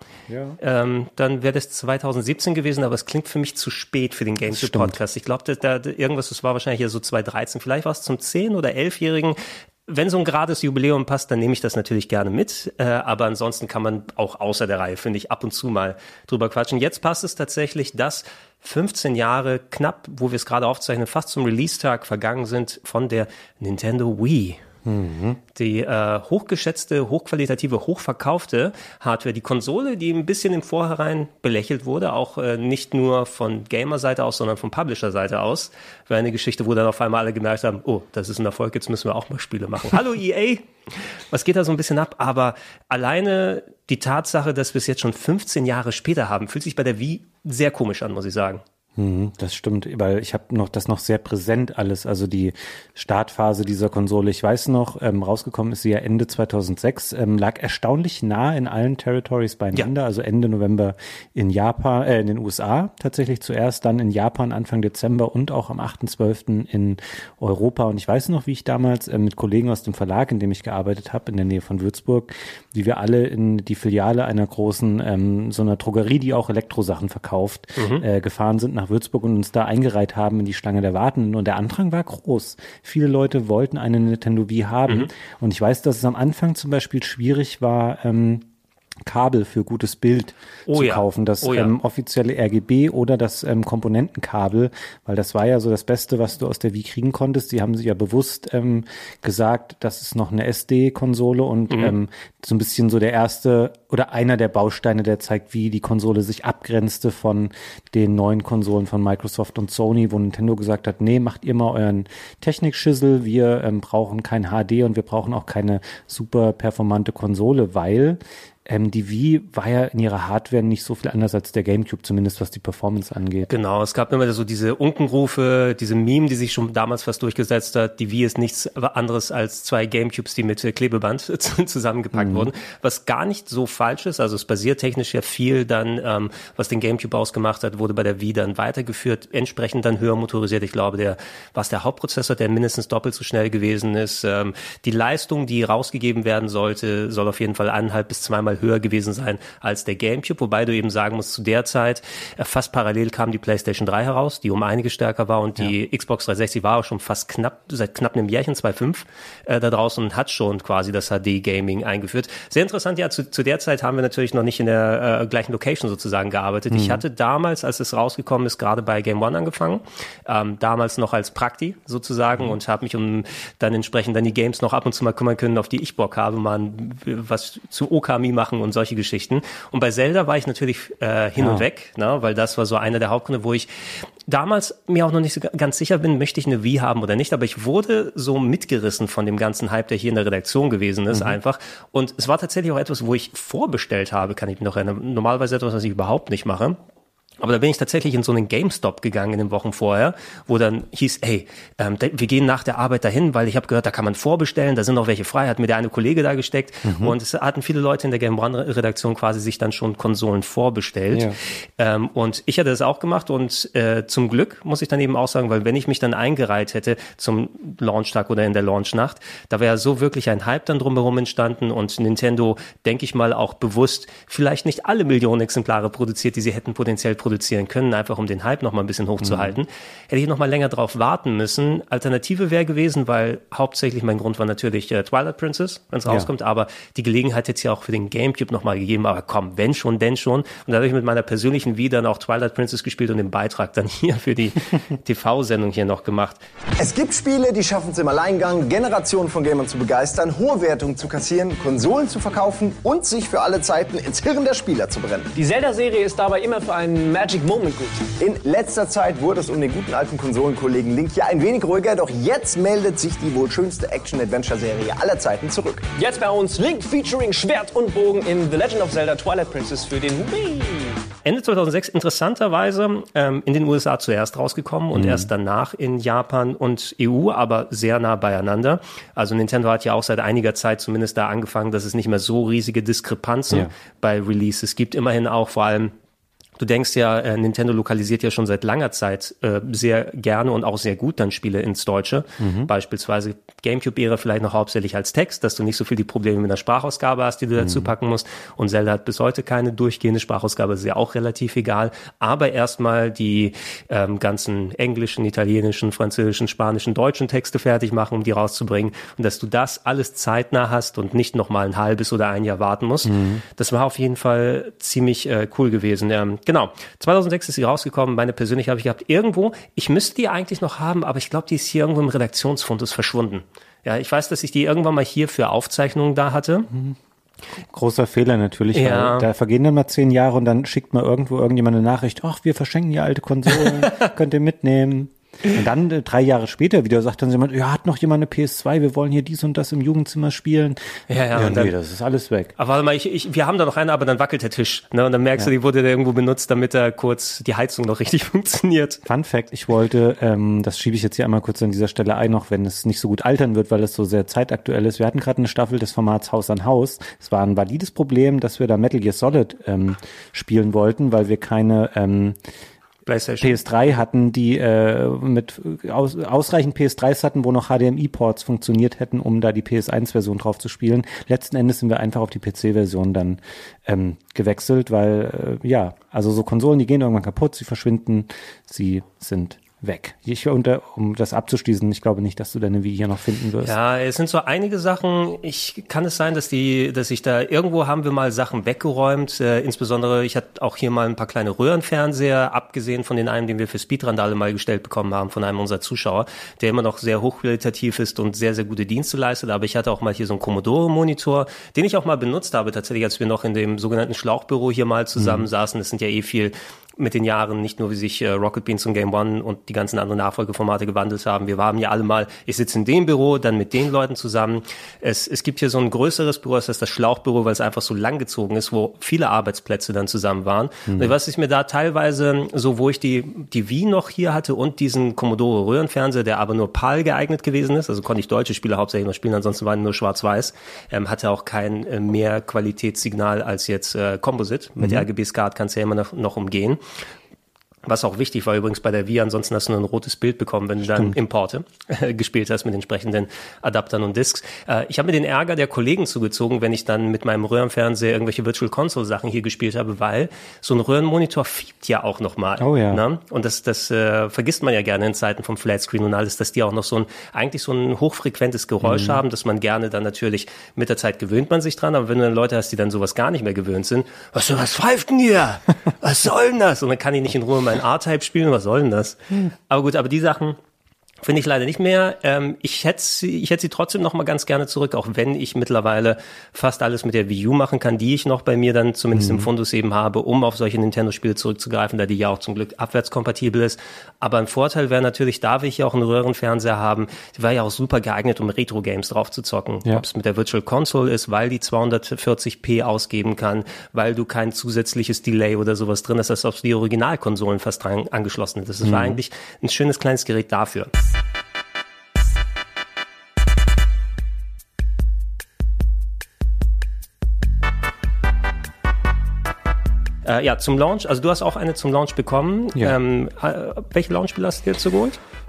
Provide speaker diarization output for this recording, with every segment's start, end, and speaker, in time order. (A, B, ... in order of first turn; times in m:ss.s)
0:00.3-0:00.6 A
0:00.6-0:24.6 B
0:04.5-0:05.0 A
0:24.8-0:25.4 A
0:25.5-0:48.6 B
0:49.0-1:28.4 A
1:17.8-1:18.0 B
1:29.0-2:03.5 A
1:30.7-1:31.7 B
2:03.5-3:03.7 B
2:12.1-2:12.5 A
2:46.7-2:47.0 A
3:01.4-3:01.6 A
3:04.3-3:16.8 B
3:11.1-3:11.4 A
3:17.4-4:06.4 B
3:26.8-3:27.2 A
3:31.1-3:31.4 A
3:49.2-3:49.6 A
4:06.8-4:15.3 C
4:15.4-4:18.1 D
4:18.1-4:25.9 C
4:25.9-4:31.0 D
4:31.2-4:45.9 B
4:34.9-4:35.3 A
4:46.6-5:26.7 B
4:52.4-4:52.7 A
4:57.6-4:57.9 A
5:13.0-5:13.4 A
5:26.7-5:27.0 A
5:27.7-5:40.8 A
5:28.7-5:29.3 B
5:33.6-5:34.1 B
5:41.1-5:41.7 B
5:41.3-5:42.5 A
5:42.6-5:49.0 B
5:49.0-6:02.4 A
6:03.0-6:03.6 B
6:03.4-6:23.8 A
6:23.6-7:16.8 B
6:45.2-6:45.5 A
7:00.9-7:01.1 A
7:14.8-7:15.0 A
7:17.8-7:50.6 B
7:20.9-7:21.2 A
7:32.6-7:33.0 A
7:38.8-7:39.2 A
7:51.2-8:20.9 B
7:59.1-7:59.5 A
8:18.8-8:19.2 A
8:30.2-8:35.2 B